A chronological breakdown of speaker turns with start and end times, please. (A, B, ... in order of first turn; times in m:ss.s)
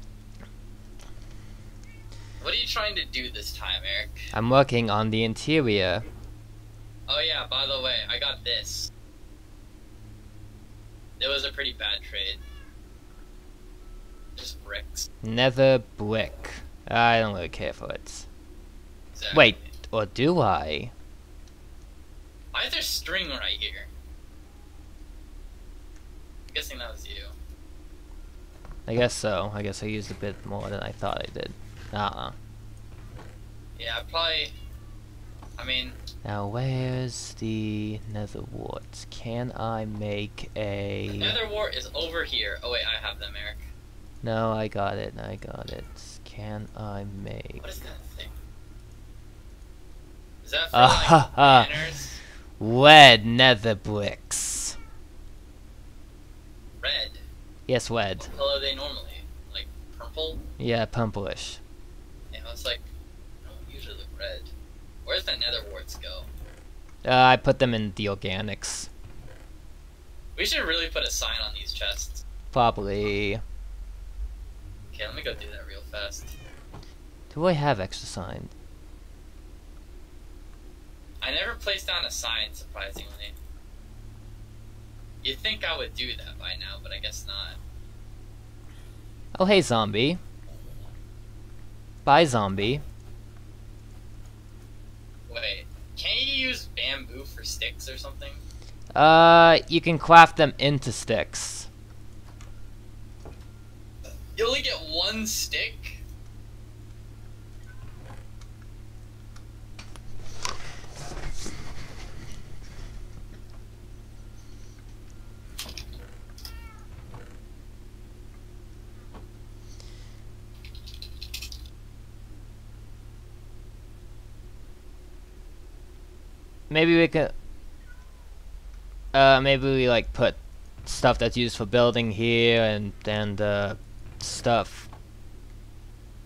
0:02.4-0:04.3 A
0:04.3-0:06.0 B
0:07.1-0:08.9 A
0:11.2-0:12.4 A
0:14.4-0:15.1 A
0:15.2-0:18.3 B
0:19.1-0:19.7 A
0:19.3-0:20.9 B
0:22.5-0:23.9 A
0:26.5-0:27.3 A
0:28.9-0:32.3 B
0:33.8-0:34.5 A
0:35.6-0:36.0 A
0:36.2-0:41.4 B
0:41.1-0:43.7 A
0:44.2-0:47.6 B
0:47.6-0:48.4 A
0:50.4-0:52.2 A
0:50.7-0:51.7 B
0:52.6-0:54.8 B
0:56.8-0:57.2 A
0:57.7-0:58.3 B
0:58.2-1:00.4 A
1:00.6-1:01.6 B
1:02.3-1:02.8 A
1:03.4-1:04.5 A
1:05.0-1:06.3 A
1:07.0-1:08.9 B
1:10.4-1:12.2 A
1:12.5-1:13.4 B
1:14.9-1:16.3 A
1:17.3-1:18.5 B
1:21.2-1:23.4 A
1:25.2-1:27.6 A
1:29.3-1:30.2 B
1:32.0-1:32.8 B
1:35.3-1:38.4 A
1:39.0-1:41.7 B
1:44.3-1:46.0 A
2:06.7-2:07.3 B
2:09.1-2:14.9 B